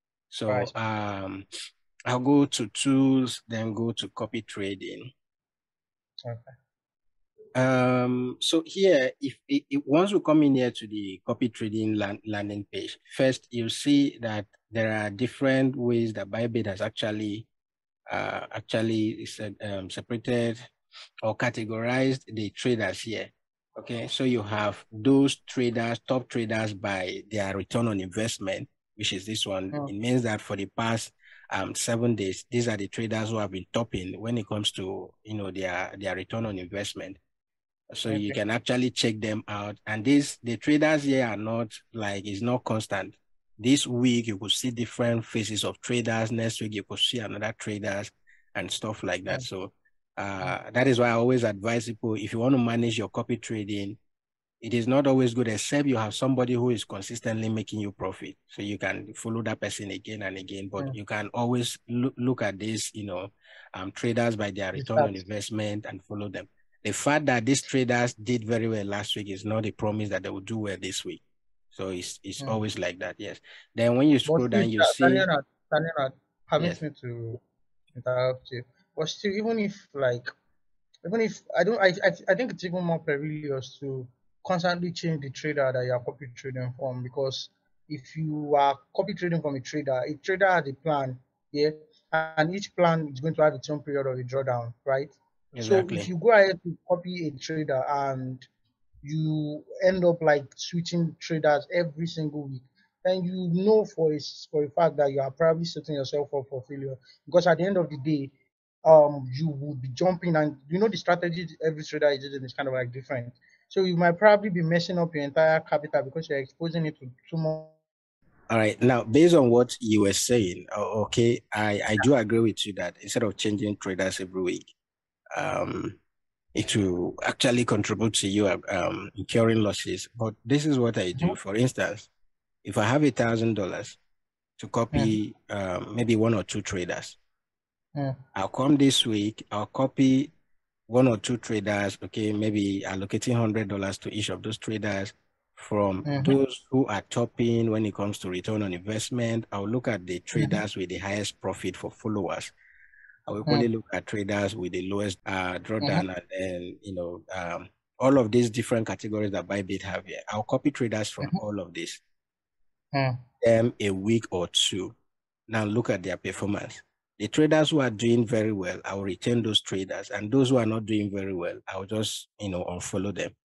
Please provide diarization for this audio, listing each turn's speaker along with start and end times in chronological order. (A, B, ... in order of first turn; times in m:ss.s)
0:00.3-0:01.4 A
0:02.1-0:05.1 A
0:06.2-0:06.5 B
0:07.6-0:17.5 A
0:18.1-0:20.6 A
0:21.2-0:37.2 A
0:37.9-0:54.0 A
0:38.1-0:38.4 B
0:54.6-1:15.3 A
1:04.8-1:05.2 B
1:14.3-1:17.4 B
1:17.9-1:20.3 B
1:21.0-1:38.5 B
1:35.5-1:36.1 A
1:39.0-1:48.3 B
1:48.8-1:57.8 B
1:58.5-2:04.7 A
2:05.3-2:06.0 A
2:06.6-2:12.1 A
2:12.6-2:14.0 A
2:14.6-2:17.2 A
2:18.4-2:20.3 A
2:20.9-2:32.5 A
2:26.1-2:26.4 B
2:33.3-2:42.0 A
2:42.9-2:43.2 B
2:43.4-2:45.0 A
2:45.5-2:53.3 A